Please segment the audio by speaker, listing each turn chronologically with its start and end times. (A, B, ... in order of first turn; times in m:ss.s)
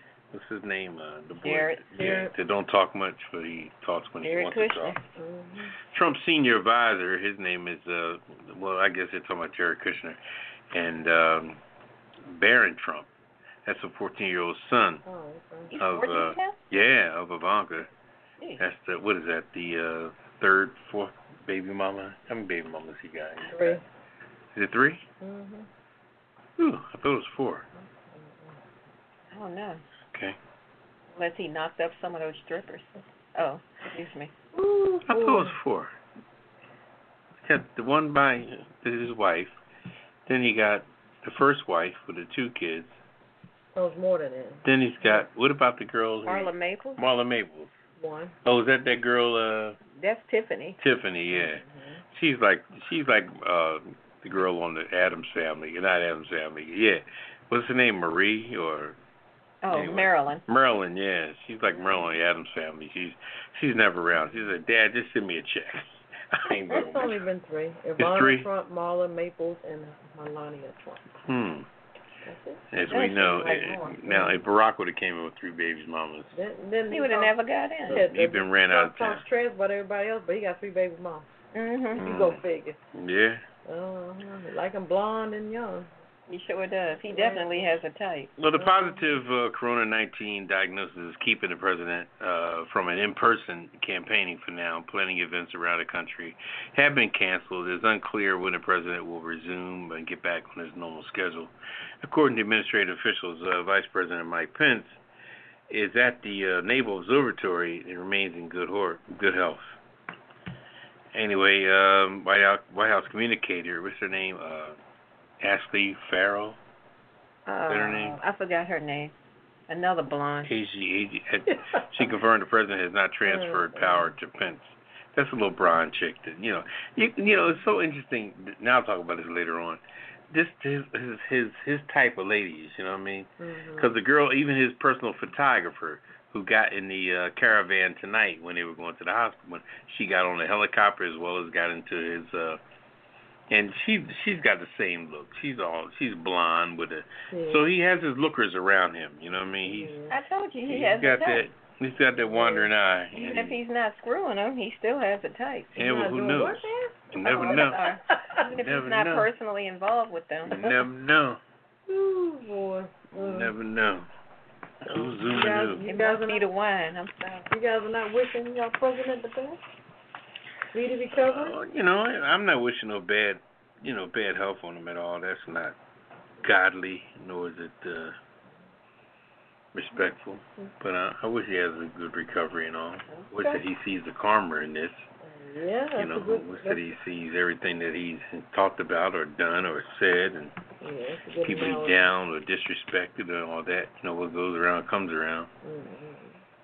0:00.3-0:05.0 A
0:01.4-0:02.2 B
0:02.0-0:02.3 C
0:04.2-0:05.0 B
0:05.2-0:05.8 C
0:05.9-0:10.2 A
0:10.7-0:11.6 A
0:12.2-0:13.1 A
0:13.6-0:15.0 A
0:15.0-0:15.7 C
0:15.7-0:16.6 B
0:15.8-0:17.9 A
0:18.6-0:23.8 A
0:23.4-0:23.8 C
0:24.6-0:25.0 A
0:25.2-0:25.7 C
0:26.6-0:27.7 A
0:27.8-0:28.6 C
0:29.3-0:29.8 B
0:31.2-0:34.3 B
0:34.5-0:35.6 C
0:35.1-0:35.9 A
0:37.4-0:39.6 A
0:40.3-0:43.0 A
0:43.8-0:45.2 C
0:44.6-0:47.7 A
0:46.3-0:47.0 B
0:48.0-0:48.4 C
0:48.4-0:49.8 A
0:50.0-0:50.8 B
0:50.8-0:59.0 A
0:51.3-0:52.0 C
0:59.6-1:00.4 B
0:59.7-1:07.2 A
1:06.7-1:11.1 C
1:08.0-1:08.5 A
1:11.2-1:11.7 A
1:12.2-1:12.6 C
1:12.7-1:16.4 A
1:12.9-1:14.0 B
1:14.1-1:14.4 C
1:16.3-1:17.4 C
1:16.9-1:18.0 B
1:17.9-1:21.3 C
1:17.9-1:19.2 A
1:21.5-1:22.0 B
1:22.0-1:22.4 A
1:22.0-1:22.8 C
1:22.9-1:23.4 A
1:23.7-1:25.9 C
1:26.3-1:28.3 B
1:27.1-1:27.7 C
1:28.4-1:45.0 A
1:28.6-1:29.1 C
1:45.7-1:49.8 A
1:51.1-1:54.8 A
1:55.4-1:56.6 A
1:57.5-1:59.1 B
1:57.7-1:58.2 A
1:59.7-2:00.5 B
2:00.4-2:09.8 A
2:03.3-2:04.1 C
2:10.3-2:22.6 A
2:13.4-2:13.9 C
2:23.5-2:30.0 A
2:27.3-2:27.6 C
2:29.6-2:30.2 C
2:30.1-2:31.5 B
2:30.7-2:33.6 A
2:32.2-2:32.7 C
2:33.1-2:35.7 B
2:35.8-2:37.8 A
2:35.8-2:38.4 C
2:37.2-2:40.7 B
2:38.5-2:39.3 A
2:40.5-2:41.4 A
2:41.9-2:43.5 C
2:43.1-2:44.1 A
2:44.8-2:45.8 A
2:44.9-2:46.5 C
2:45.4-2:47.5 B
2:47.5-2:49.6 C
2:50.7-2:51.6 C
2:51.2-2:55.8 A
2:56.4-2:58.1 A
2:59.7-3:05.1 A
3:05.2-3:06.9 C
3:06.0-3:10.5 A
3:10.8-3:12.1 C
3:11.4-3:15.5 A
3:15.6-3:16.4 C